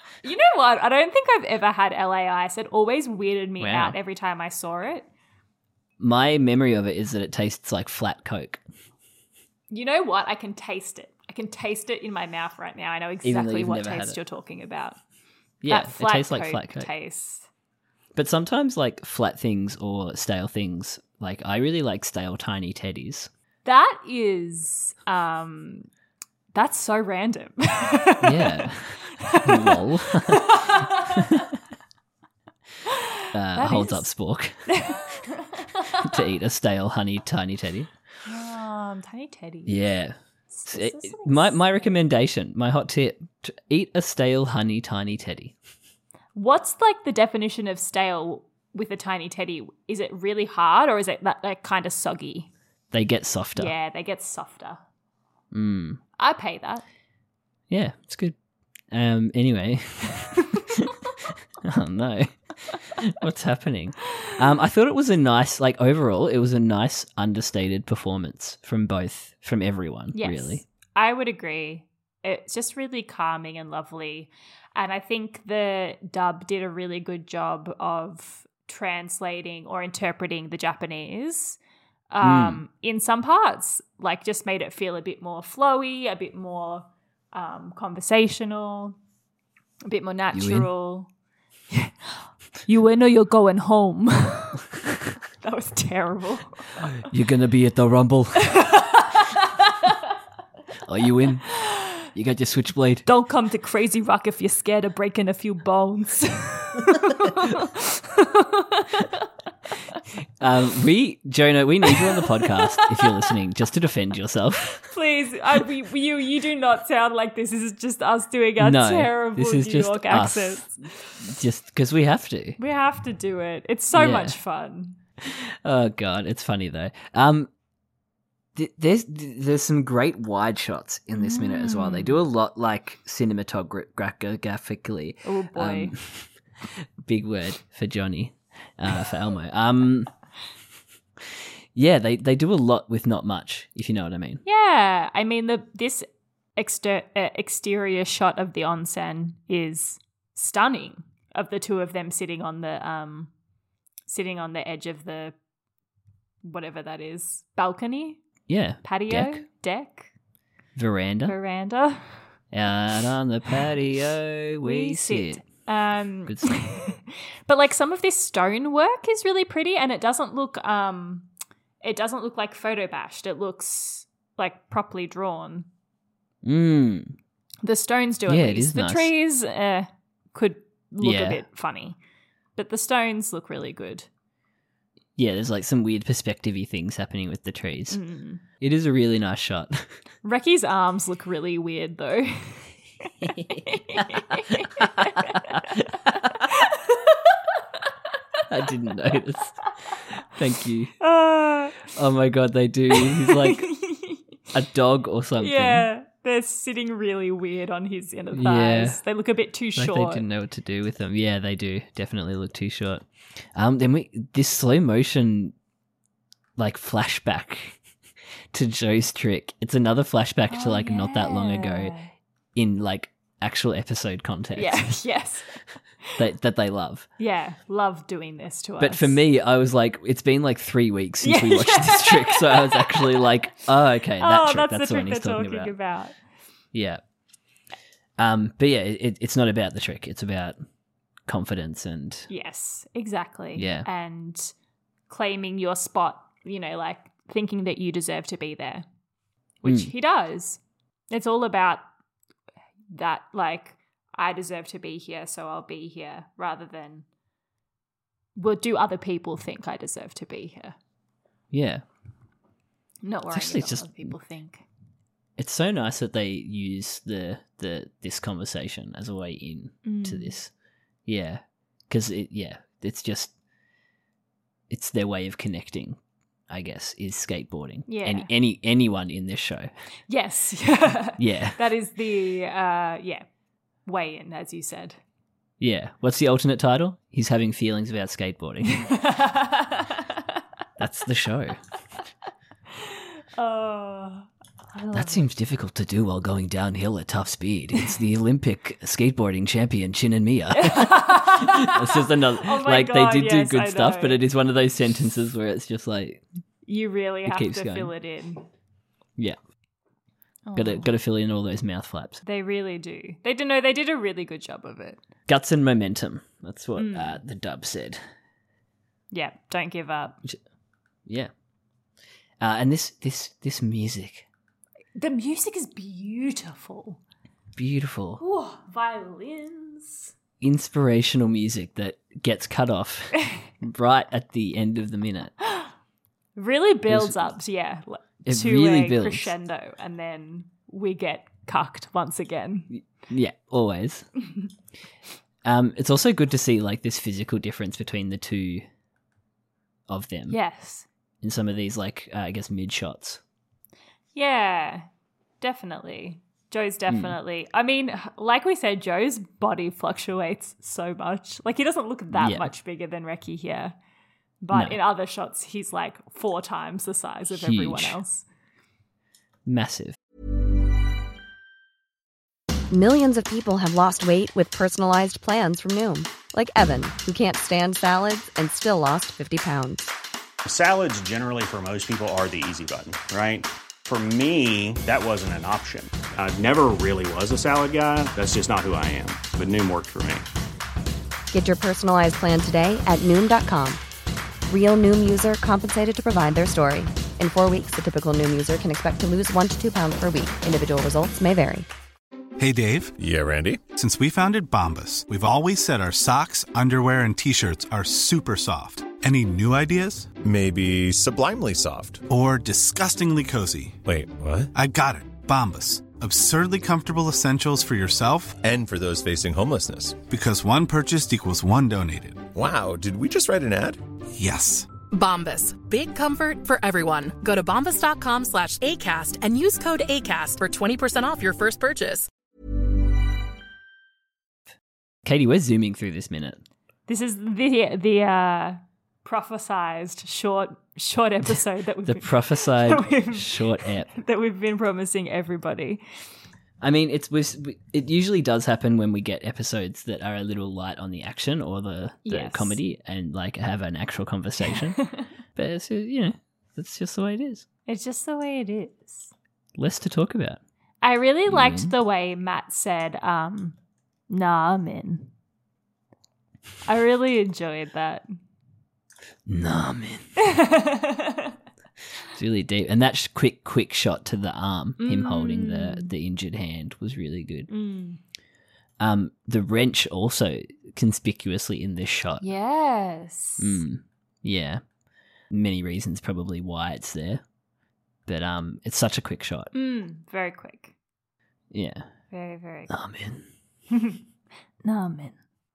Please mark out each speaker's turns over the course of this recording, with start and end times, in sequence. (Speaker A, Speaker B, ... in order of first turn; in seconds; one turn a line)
Speaker A: 0.2-5.1
Speaker B: 3.6-4.0
Speaker B: 6.0-8.6
Speaker A: 9.7-15.0
Speaker B: 13.2-14.2
Speaker B: 15.6-16.9
Speaker A: 15.7-17.5
Speaker B: 18.1-23.3
Speaker A: 23.6-25.9
Speaker A: 26.5-31.4
Speaker B: 28.2-31.2
Speaker A: 32.9-34.1
Speaker B: 33.3-34.8
Speaker A: 34.7-36.2
Speaker B: 36.0-37.9
Speaker A: 38.2-39.8
Speaker B: 39.7-40.2
Speaker A: 40.5-41.9
Speaker B: 40.7-45.5
Speaker A: 46.4-52.5
Speaker B: 52.9-53.7
Speaker A: 53.6-54.8
Speaker B: 55.5-56.0
Speaker A: 56.2-56.8
Speaker B: 57.7-58.4
Speaker B: 58.9-60.9
Speaker B: 61.6-70.6
Speaker A: 70.2-81.6
Speaker A: 82.1-88.9
Speaker B: 82.2-82.6
Speaker A: 89.9-91.1
Speaker B: 90.3-90.7
Speaker A: 91.7-94.7
Speaker A: 95.4-97.0
Speaker B: 97.0-98.6
Speaker A: 98.5-100.0
Speaker B: 100.9-103.1
Speaker A: 103.1-109.2
Speaker B: 110.4-114.9
Speaker A: 112.6-113.1
Speaker A: 114.9-121.2
Speaker B: 118.6-122.6
Speaker A: 122.6-125.0
Speaker B: 123.9-124.4
Speaker B: 125.2-127.5
Speaker B: 128.6-136.3
Speaker A: 131.1-132.2
Speaker A: 135.2-135.9
Speaker B: 137.0-140.1
Speaker B: 141.8-144.4
Speaker A: 144.4-153.3
Speaker A: 154.1-155.3
Speaker A: 156.4-158.2
Speaker B: 158.5-159.4
Speaker A: 158.8-160.1
Speaker B: 160.8-161.3
Speaker A: 161.3-162.2
Speaker B: 162.5-165.4
Speaker A: 164.6-171.3
Speaker B: 166.3-166.6
Speaker A: 171.8-175.7
Speaker B: 176.4-177.2
Speaker A: 177.6-182.0
Speaker B: 178.3-179.1
Speaker B: 181.0-181.4
Speaker A: 182.6-184.1
Speaker B: 185.2-188.0
Speaker A: 187.9-188.4
Speaker B: 188.6-189.9
Speaker A: 190.2-192.7
Speaker B: 193.2-194.0
Speaker A: 193.3-197.3
Speaker B: 194.6-196.3
Speaker B: 198.5-201.0
Speaker A: 201.0-201.9
Speaker B: 201.8-203.7
Speaker A: 202.9-204.2
Speaker B: 204.5-205.9
Speaker A: 205.4-210.2
Speaker B: 208.3-209.0
Speaker B: 209.8-213.0
Speaker B: 213.6-215.5
Speaker B: 216.6-217.8
Speaker B: 218.5-221.9
Speaker A: 220.5-222.1
Speaker B: 222.6-224.9
Speaker A: 224.6-225.6
Speaker B: 226.2-227.1
Speaker A: 227.2-229.2
Speaker B: 228.8-235.7
Speaker A: 231.2-233.2
Speaker A: 234.2-236.2
Speaker B: 236.7-237.0
Speaker B: 238.2-240.6
Speaker B: 241.3-242.3
Speaker A: 242.3-244.5
Speaker B: 243.6-243.9
Speaker A: 245.1-248.8
Speaker A: 249.6-251.8
Speaker B: 249.7-249.9
Speaker A: 252.9-257.1
Speaker A: 258.4-260.8
Speaker B: 261.5-261.8
Speaker A: 263.0-264.6
Speaker B: 263.3-264.1
Speaker B: 265.4-270.5
Speaker A: 269.8-270.4
Speaker B: 271.1-273.3
Speaker B: 274.7-276.0
Speaker B: 276.5-279.7
Speaker A: 277.9-278.3
Speaker A: 280.1-283.2
Speaker B: 281.2-281.6
Speaker A: 283.9-285.0
Speaker B: 285.6-288.9
Speaker A: 288.8-290.2
Speaker B: 290.8-291.6
Speaker A: 292.8-295.3
Speaker B: 294.9-306.2
Speaker A: 300.5-304.2
Speaker A: 306.7-308.4
Speaker B: 307.3-307.9
Speaker A: 310.5-310.9
Speaker B: 310.6-312.2
Speaker A: 312.2-315.0
Speaker B: 315.3-318.0
Speaker A: 316.8-317.2
Speaker A: 319.1-320.2
Speaker B: 322.4-324.3
Speaker A: 324.9-327.0
Speaker B: 327.6-328.2
Speaker A: 328.2-330.1
Speaker B: 330.4-335.3
Speaker A: 335.4-335.7
Speaker A: 336.4-342.7
Speaker B: 336.9-337.3
Speaker B: 338.2-339.3
Speaker B: 342.7-344.1
Speaker B: 345.4-348.6
Speaker B: 349.9-350.4
Speaker A: 350.3-350.9
Speaker B: 351.2-353.2
Speaker A: 354.1-354.9
Speaker A: 355.4-363.8
Speaker B: 356.9-357.2
Speaker B: 362.1-362.5
Speaker A: 364.4-368.2
Speaker B: 364.5-364.8
Speaker B: 367.3-368.0
Speaker B: 369.4-370.0
Speaker C: 372.7-379.9
Speaker D: 380.4-390.3
Speaker C: 391.3-393.8
Speaker C: 394.5-401.7
Speaker E: 402.4-402.9
Speaker F: 403.0-403.7
Speaker E: 403.7-410.1
Speaker F: 410.2-412.1
Speaker E: 412.1-413.8
Speaker F: 413.9-414.5
Speaker E: 414.5-418.4
Speaker F: 418.4-420.1
Speaker E: 420.1-422.3
Speaker F: 422.3-423.8
Speaker E: 424.1-424.7
Speaker G: 424.9-432.1
Speaker B: 435.1-436.4
Speaker A: 436.9-445.8
Speaker B: 441.9-443.9
Speaker B: 446.6-457.4
Speaker A: 452.1-452.6
Speaker A: 457.7-459.1
Speaker B: 459.6-460.4
Speaker A: 460.8-463.6
Speaker B: 461.3-461.7
Speaker A: 464.1-465.1
Speaker A: 466.7-468.1
Speaker B: 469.3-470.1
Speaker A: 470.2-471.3
Speaker B: 472.1-477.5
Speaker A: 474.8-475.9
Speaker A: 477.5-478.0
Speaker B: 478.8-482.2
Speaker A: 482.2-483.6
Speaker B: 483.4-484.6
Speaker B: 485.3-487.2
Speaker B: 488.1-489.5
Speaker A: 489.5-490.7
Speaker B: 491.5-491.8
Speaker A: 492.1-492.7
Speaker B: 492.7-493.3
Speaker A: 493.7-494.0
Speaker A: 494.6-495.2